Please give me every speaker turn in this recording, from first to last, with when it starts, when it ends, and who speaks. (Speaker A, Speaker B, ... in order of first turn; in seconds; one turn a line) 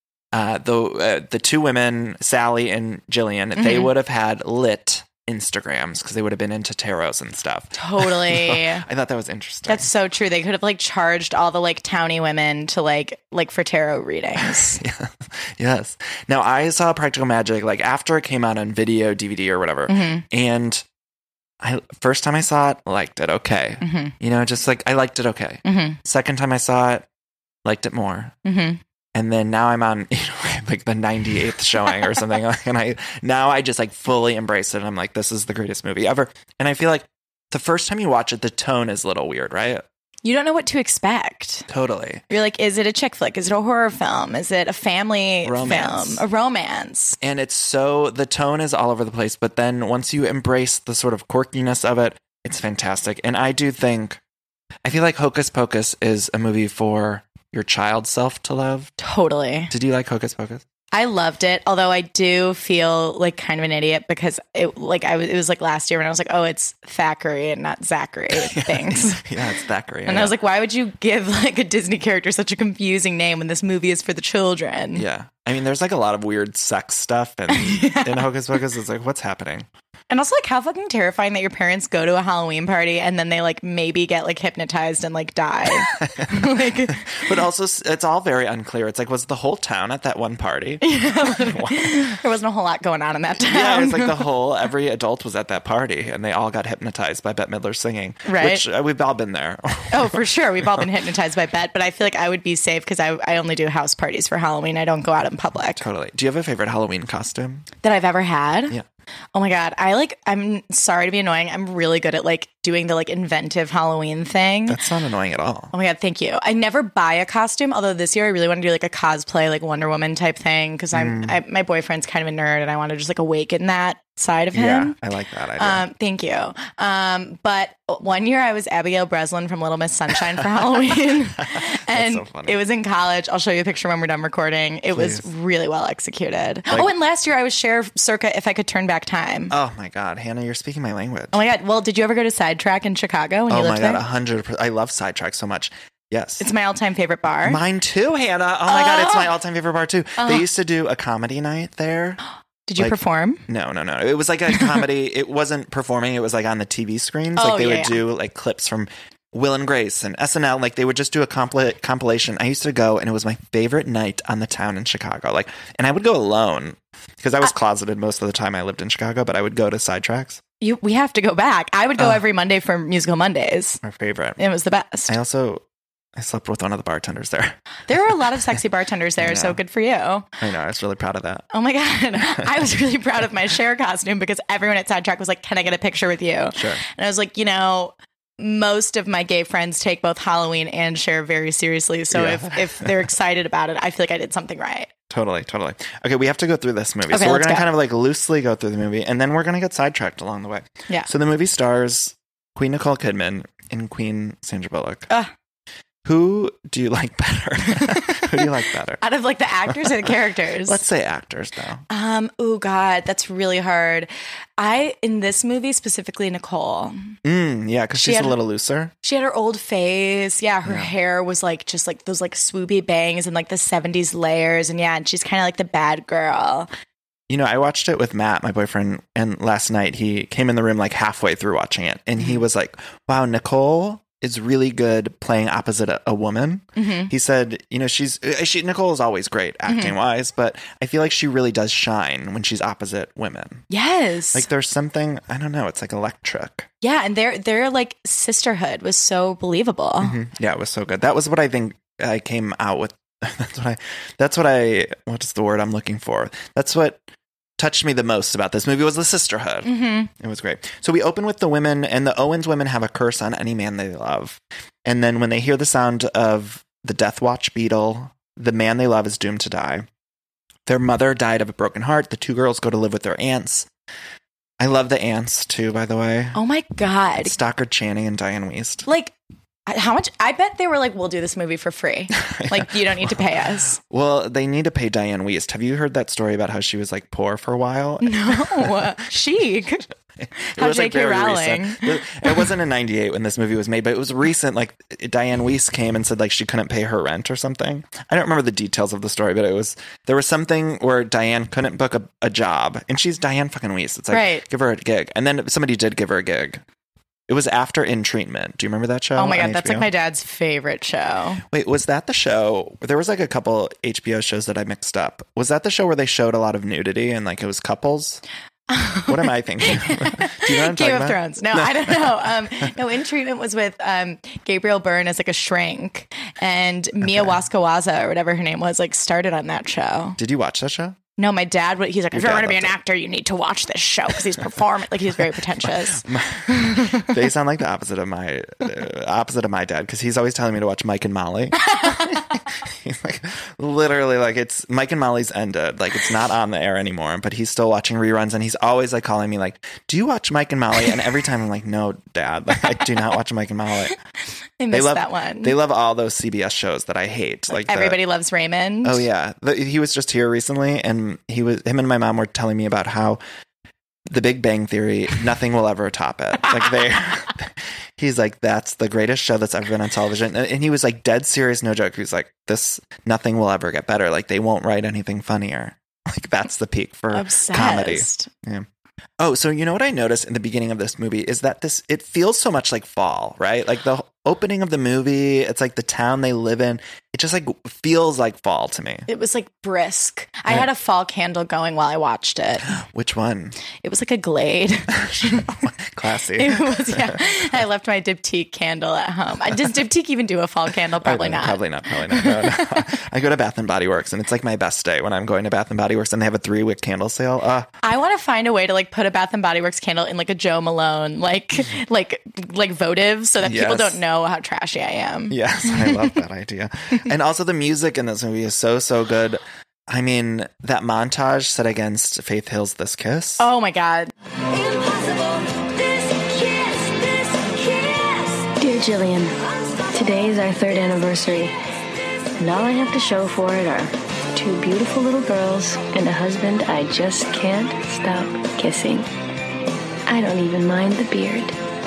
Speaker A: 0.3-9.9
Speaker B: 3.5-3.9
Speaker B: 7.7-8.8
Speaker B: 9.7-14.8
Speaker A: 14.4-20.8
Speaker B: 19.9-20.2
Speaker A: 21.6-27.1
Speaker B: 23.8-24.1
Speaker B: 25.6-26.0
Speaker A: 27.6-28.3
Speaker B: 28.4-28.8
Speaker A: 29.1-39.8
Speaker B: 40.2-41.7
Speaker A: 41.7-42.2
Speaker B: 42.3-47.2
Speaker A: 45.4-46.2
Speaker A: 47.2-54.2
Speaker A: 54.8-58.9
Speaker B: 59.0-59.7
Speaker A: 59.7-60.6
Speaker B: 60.9-69.3
Speaker A: 68.3-70.3
Speaker B: 70.0-75.0
Speaker A: 74.9-79.7
Speaker B: 77.5-78.2
Speaker B: 80.1-87.0
Speaker A: 86.1-92.1
Speaker B: 90.8-94.2
Speaker A: 93.5-100.8
Speaker B: 98.2-98.6
Speaker B: 99.9-105.8
Speaker A: 105.8-107.7
Speaker B: 107.8-108.8
Speaker B: 109.3-114.8
Speaker A: 114.7-115.7
Speaker B: 115.7-125.0
Speaker A: 120.9-121.4
Speaker A: 124.5-125.8
Speaker B: 125.6-139.5
Speaker A: 131.4-132.6
Speaker A: 134.9-135.3
Speaker A: 139.5-141.4
Speaker B: 141.3-144.0
Speaker A: 143.5-146.5
Speaker B: 146.4-147.6
Speaker A: 147.4-152.2
Speaker B: 148.7-149.3
Speaker B: 150.2-150.4
Speaker B: 152.7-153.4
Speaker A: 152.8-170.4
Speaker B: 157.4-158.0
Speaker B: 170.6-173.8
Speaker A: 172.0-172.2
Speaker A: 173.8-174.4
Speaker B: 174.4-175.1
Speaker A: 175.1-175.6
Speaker A: 176.1-177.6
Speaker B: 177.9-180.3
Speaker A: 179.2-179.6
Speaker A: 180.4-181.4
Speaker B: 181.5-194.9
Speaker A: 186.5-186.8
Speaker A: 192.1-192.9
Speaker A: 195.1-205.1
Speaker B: 197.1-197.7
Speaker A: 206.0-209.0
Speaker B: 207.8-208.5
Speaker B: 209.0-210.8
Speaker A: 209.7-210.1
Speaker A: 210.6-211.8
Speaker B: 211.9-217.1
Speaker A: 217.2-218.9
Speaker B: 218.0-218.3
Speaker B: 219.0-226.7
Speaker A: 220.6-220.9
Speaker A: 227.3-243.6
Speaker B: 236.8-237.1
Speaker B: 239.7-239.9
Speaker B: 243.7-244.5
Speaker A: 244.3-246.7
Speaker B: 246.8-250.2
Speaker A: 250.0-257.1
Speaker A: 257.6-269.9
Speaker B: 259.6-260.1
Speaker A: 270.6-273.7
Speaker A: 274.6-276.4
Speaker B: 276.3-277.3
Speaker A: 277.2-278.9
Speaker B: 278.9-279.1
Speaker B: 279.7-283.8
Speaker A: 282.2-288.9
Speaker B: 288.0-289.9
Speaker A: 290.2-306.6
Speaker B: 290.4-292.5
Speaker B: 304.1-304.4
Speaker A: 307.3-309.9
Speaker B: 309.2-311.4
Speaker A: 311.5-318.2
Speaker B: 318.7-330.2
Speaker A: 319.1-322.3
Speaker A: 327.0-327.4
Speaker A: 330.2-331.0
Speaker B: 331.2-337.1
Speaker A: 332.1-332.7
Speaker A: 335.6-353.9
Speaker B: 341.6-342.2
Speaker B: 354.6-355.6
Speaker A: 354.7-358.0
Speaker B: 357.5-359.0
Speaker A: 358.8-363.2
Speaker A: 364.1-378.6
Speaker B: 377.1-378.3
Speaker A: 379.2-389.1
Speaker B: 389.1-392.7
Speaker A: 392.7-393.6
Speaker B: 393.8-395.5
Speaker A: 395.0-397.2
Speaker B: 396.4-402.8
Speaker A: 401.0-407.7
Speaker B: 407.8-416.2
Speaker A: 413.4-414.0
Speaker A: 415.3-423.4
Speaker B: 423.4-424.1
Speaker C: 428.6-429.3
Speaker C: 429.9-431.5
Speaker C: 432.4-439.1
Speaker C: 440.1-441.6